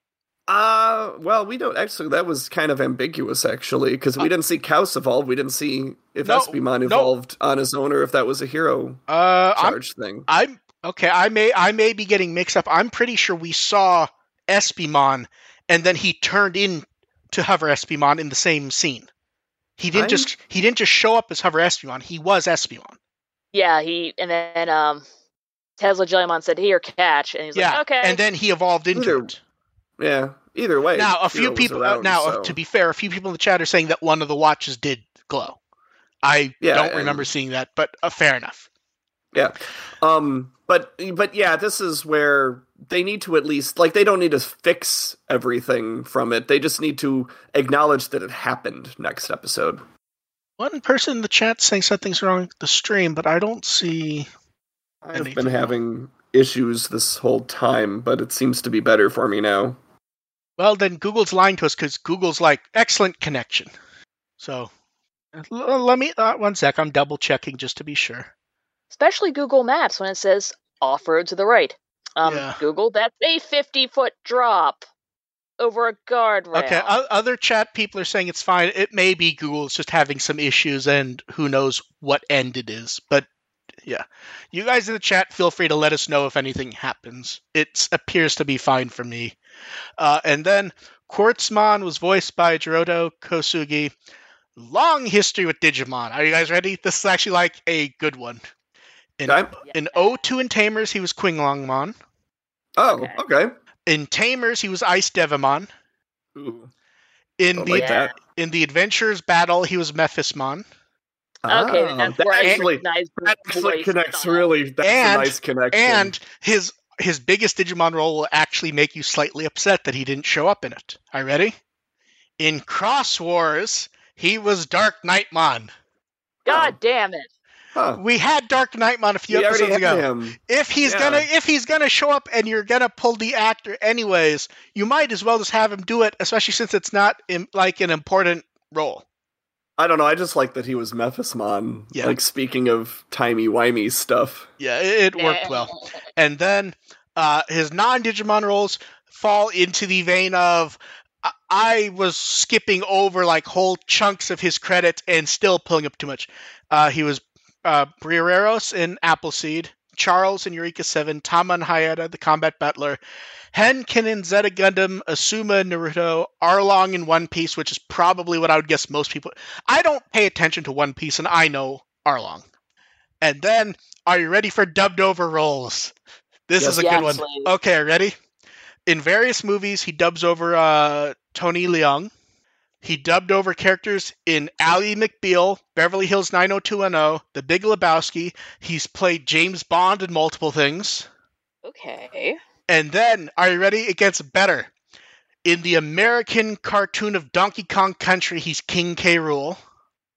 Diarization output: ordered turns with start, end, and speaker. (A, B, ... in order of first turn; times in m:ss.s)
0:00.5-0:09.0 A
0:06.2-0:07.1 B
0:09.1-0:19.1 B
0:09.6-0:10.3 A
0:19.8-0:23.0 B
0:19.9-0:20.3 A
0:23.5-0:25.0 C
0:25.8-0:28.2 C
0:27.6-0:29.4 B
0:28.9-0:29.3 A
0:30.0-0:32.6 A
0:31.0-0:35.6 B
0:36.2-0:38.7 B
0:36.6-0:37.3 A
0:39.3-0:49.8 A
0:50.6-0:54.3 B
0:55.0-0:59.8 A
0:55.1-0:55.7 B
1:00.6-1:03.7 B
1:04.4-1:04.7 B
1:05.4-1:08.3 B
1:08.9-1:14.8 C
1:12.2-1:12.6 B
1:15.6-1:16.9 C
1:16.5-1:23.3 B
1:23.9-1:29.4 B
1:30.0-1:33.9 B
1:34.6-1:38.4 B
1:39.2-1:42.0 B
1:39.3-1:39.5 A
1:39.6-1:40.1 C
1:42.8-1:43.5 A
1:42.8-1:43.2 C
1:43.9-1:45.7 B
1:46.4-1:46.7 A
1:47.4-1:50.6 B
1:47.6-1:48.1 A
1:47.7-1:48.1 C
1:51.4-1:56.1 A
1:51.5-1:54.5 C
1:54.8-2:01.6 B
2:02.4-2:05.7 B
2:06.5-2:06.8 A
2:06.5-2:07.3 C
2:07.8-2:08.0 A
2:08.0-2:19.0 B
2:09.3-2:11.3 A
2:19.8-2:24.5 A
2:24.6-2:43.0 B
2:25.2-2:25.9 C
2:43.5-2:52.4 B
2:53.2-2:55.9 B
2:56.5-2:58.2 B
2:56.6-2:57.2 A
2:56.6-2:57.5 C
2:58.9-3:02.1 B
3:02.8-3:11.1 B
3:11.6-3:12.4 C
3:12.7-3:14.7 B
3:15.4-3:19.6 B